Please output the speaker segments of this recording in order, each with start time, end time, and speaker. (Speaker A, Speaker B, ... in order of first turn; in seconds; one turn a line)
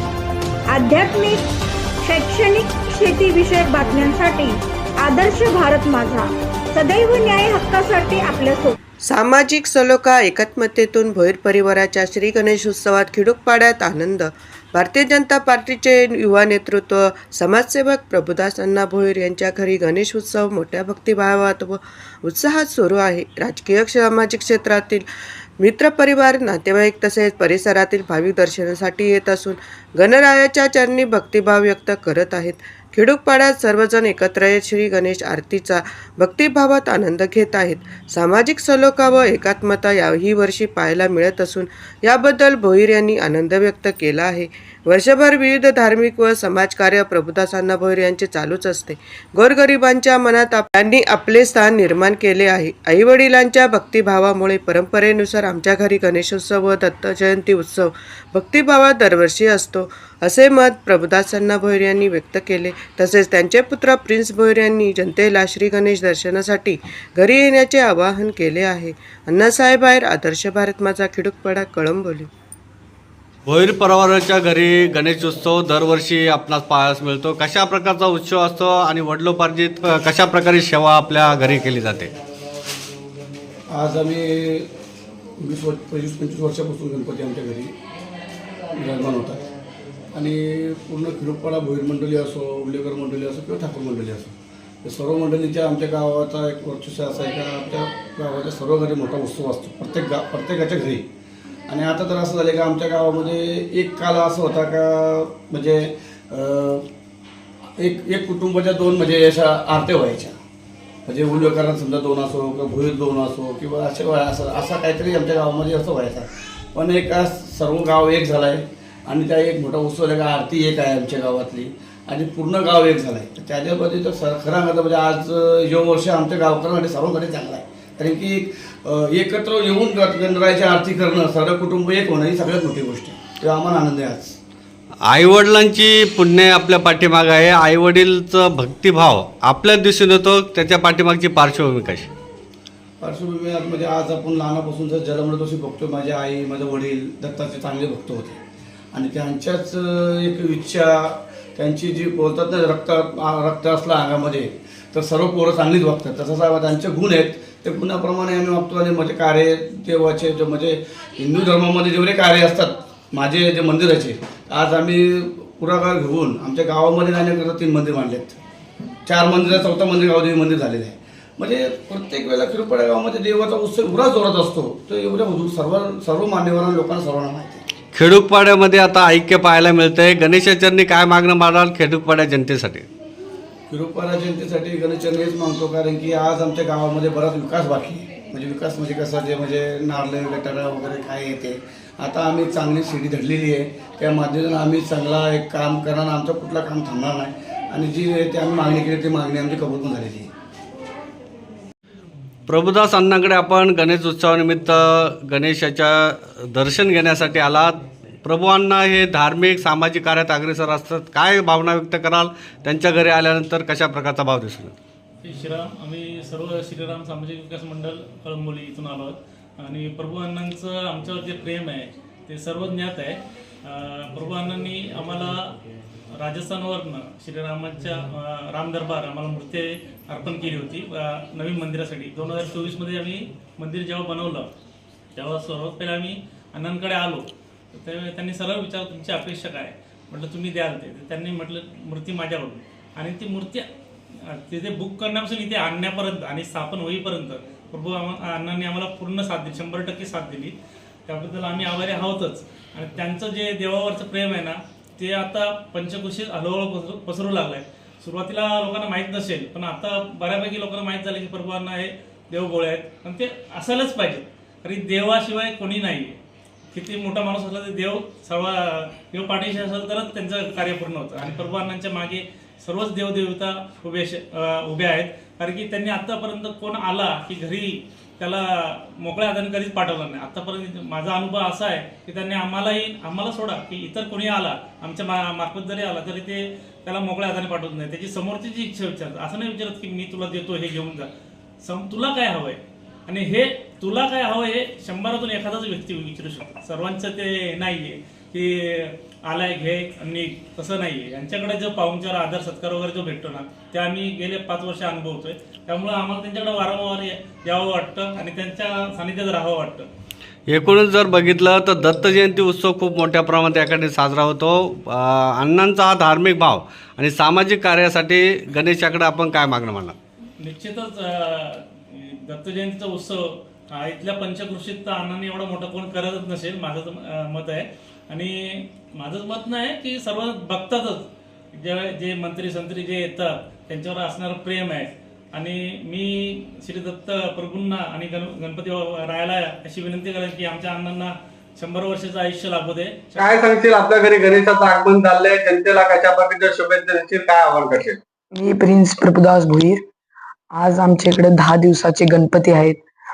Speaker A: 0.7-1.4
Speaker A: 2.0-8.8
Speaker B: 9.1-25.1
Speaker B: 25.6-72.3
Speaker C: 73.5-82.1
Speaker D: 83.7-84.7
Speaker D: 85.4-87.7
Speaker D: 88.7-89.5
Speaker D: 90.1-101.1
Speaker D: 101.7-106.9
Speaker D: 107.8-110.4
Speaker D: 111.1-134.4
Speaker C: 135.1-142.1
Speaker D: 143.0-148.4
Speaker D: 148.9-168.4
Speaker D: 169.1-177.6
Speaker C: 177.9-182.9
Speaker D: 183.7-200.3
Speaker C: 202.5-214.8
Speaker E: 215.2-225.5
Speaker E: 226.2-234.5
Speaker E: 235.2-237.3
Speaker E: 237.8-250.5
Speaker E: 251.1-266.2
Speaker E: 266.7-291.1
Speaker E: 291.6-309.9
Speaker C: 310.5-320.0
Speaker E: 320.4-343.2
Speaker C: 343.2-348.0
Speaker F: 348.3-349.8
Speaker F: 350.5-352.8